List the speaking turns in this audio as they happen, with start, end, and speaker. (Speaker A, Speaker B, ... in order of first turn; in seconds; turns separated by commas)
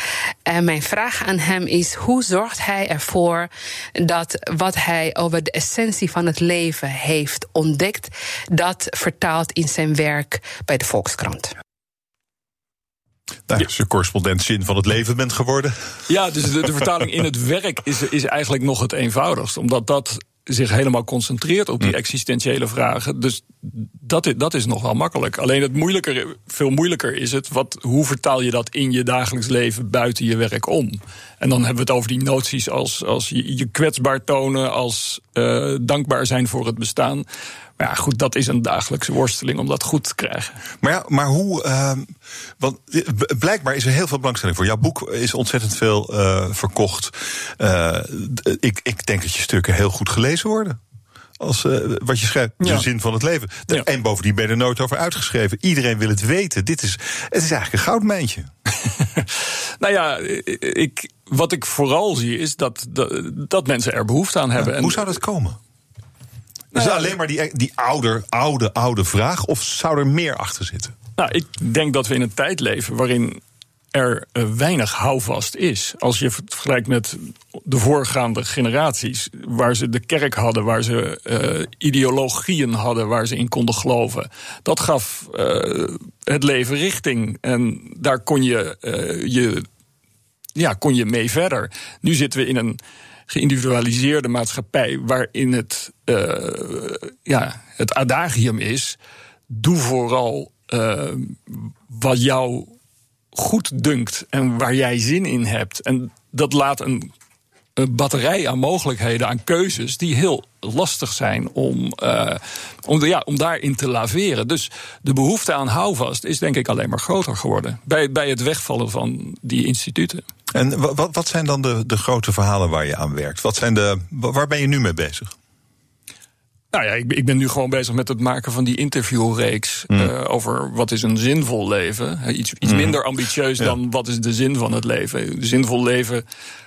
Speaker A: 0.5-11.5, Speaker B: 13.5-16.0, Speaker C: 16.1-37.3, Speaker C: 37.8-40.5, Speaker B: 40.8-50.8, Speaker B: 51.4-58.5, Speaker C: 52.6-52.9, Speaker C: 59.1-65.2, Speaker B: 64.6-65.6, Speaker C: 66.7-67.1, Speaker B: 66.7-71.0, Speaker C: 71.2-73.4, Speaker C: 73.9-89.7, Speaker C: 90.6-99.0, Speaker C: 99.5-102.7, Speaker C: 103.3-107.1, Speaker C: 107.8-120.2, Speaker B: 120.5-125.3, Speaker C: 126.7-136.2, Speaker B: 132.6-133.0